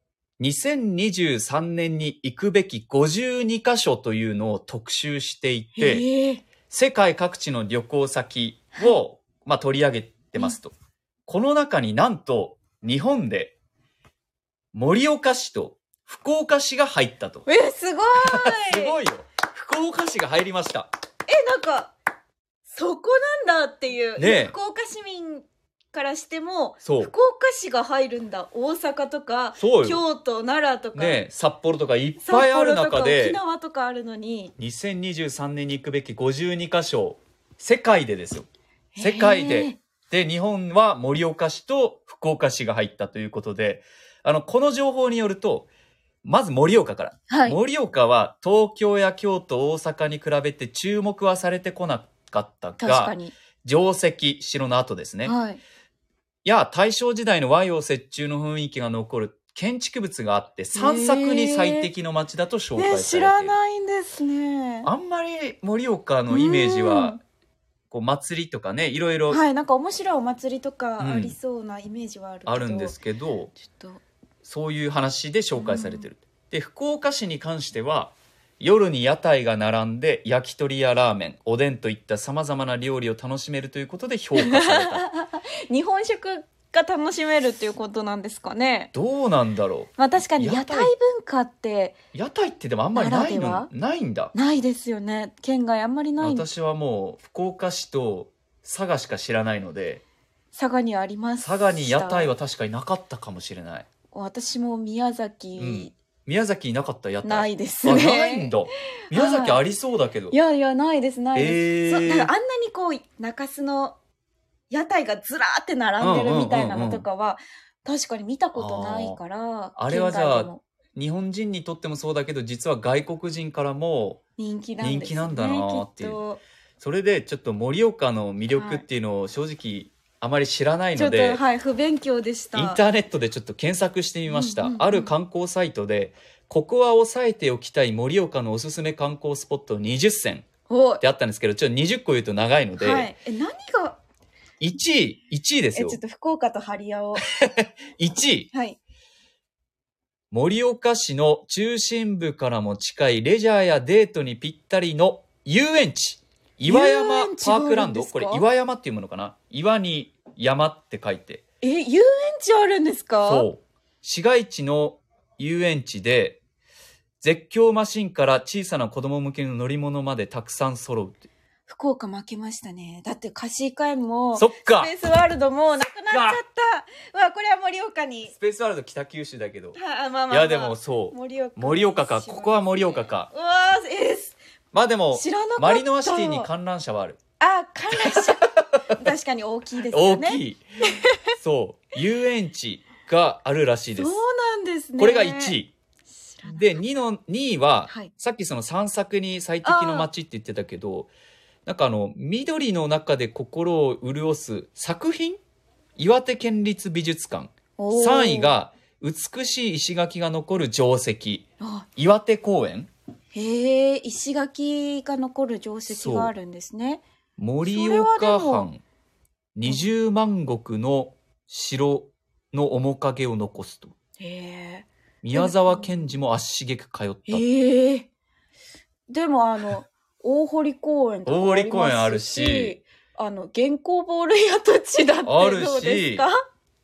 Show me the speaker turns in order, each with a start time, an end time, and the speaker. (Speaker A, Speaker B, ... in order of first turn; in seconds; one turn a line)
Speaker A: 0.4-6.0
Speaker B: 5.8-6.4
Speaker A: 6.7-10.7
Speaker A: 11.3-13.5
Speaker A: 14.7-17.5
Speaker B: 17.4-19.0
Speaker A: 18.2-20.9
Speaker B: 21.3-21.9
Speaker B: 22.7-31.2
Speaker A: 24.1-24.5
Speaker A: 26.8-27.1
Speaker A: 29.6-30.0
Speaker A: 30.9-33.4
Speaker B: 32.2-34.5
Speaker A: 34.6-38.5
Speaker B: 38.9-39.8
Speaker A: 39.0-45.7
Speaker A: 46.2-55.4
Speaker B: 47.3-47.6
Speaker B: 52.8-53.4
Speaker B: 55.2-55.6
Speaker A: 56.4-63.5
Speaker B: 60.7-61.9
Speaker B: 62.8-64.9
Speaker A: 64.8-67.2
Speaker B: 66.3-67.2
Speaker A: 67.9-69.4
Speaker B: 69.3-73.0
Speaker A: 71.0-71.3
Speaker A: 72.5-73.5
Speaker B: 73.6-74.0
Speaker A: 74.4-85.0
Speaker B: 75.5-76.1
Speaker B: 84.3-88.9
Speaker A: 88.9-90.9
Speaker B: 90.0-91.9
Speaker A: 92.1-94.3
Speaker B: 92.9-93.7
Speaker B: 94.3-96.5
Speaker A: 96.2-100.0
Speaker B: 100.5-102.3
Speaker A: 101.4-103.8
Speaker B: 104.1-105.9
Speaker A: 105.6-110.3
Speaker B: 107.2-108.5
Speaker B: 109.1-109.6
Speaker B: 110.3-114.0
Speaker A: 111.3-112.3
Speaker B: 114.7-120.6
Speaker A: 116.0-117.0
Speaker A: 118.5-119.2
Speaker A: 119.8-124.2
Speaker B: 124.4-126.4
Speaker A: 124.8-126.2
Speaker A: 126.8-131.4
Speaker B: 128.5-128.8
Speaker B: 130.9-132.8
Speaker A: 132.5-140.5
Speaker B: 134.3-135.1
Speaker B: 140.7-141.0
Speaker A: 141.0-143.1
Speaker B: 142.8-144.0
Speaker A: 144.6-146.0
Speaker B: 145.7-147.2
Speaker A: 147.4-148.5
Speaker B: 148.5-148.8
Speaker A: 150.3-161.4
Speaker B: 156.7-158.4
Speaker B: 161.6-163.5
Speaker A: 163.2-166.4
Speaker A: 167.2-171.2
Speaker B: 171.7-178.3
Speaker A: 174.3-174.9
Speaker A: 176.1-176.4
Speaker A: 178.3-179.8
Speaker B: 179.7-184.4
Speaker A: 180.3-183.3
Speaker A: 184.7-187.2
Speaker B: 185.1-186.5
Speaker B: 187.4-191.2
Speaker A: 189.9-190.6
Speaker A: 191.4-194.2
Speaker B: 193.9-195.6
Speaker A: 195.0-195.7
Speaker B: 196.1-196.8
Speaker A: 196.4-201.1
Speaker B: 197.9-198.1
Speaker B: 199.6-200.1
Speaker A: 201.7-205.4
Speaker A: 206.0-211.4
Speaker B: 207.8-208.5
Speaker B: 211.6-211.9
Speaker A: 211.9-212.9
Speaker B: 213.3-217.0
Speaker A: 215.9-216.3
Speaker A: 217.4-218.8
Speaker B: 217.6-218.7
Speaker A: 219.5-223.9
Speaker B: 224.2-226.1
Speaker A: 225.2-227.4
Speaker B: 227.3-228.1
Speaker B: 229.1-236.4
Speaker A: 231.2-232.8
Speaker A: 235.2-236.2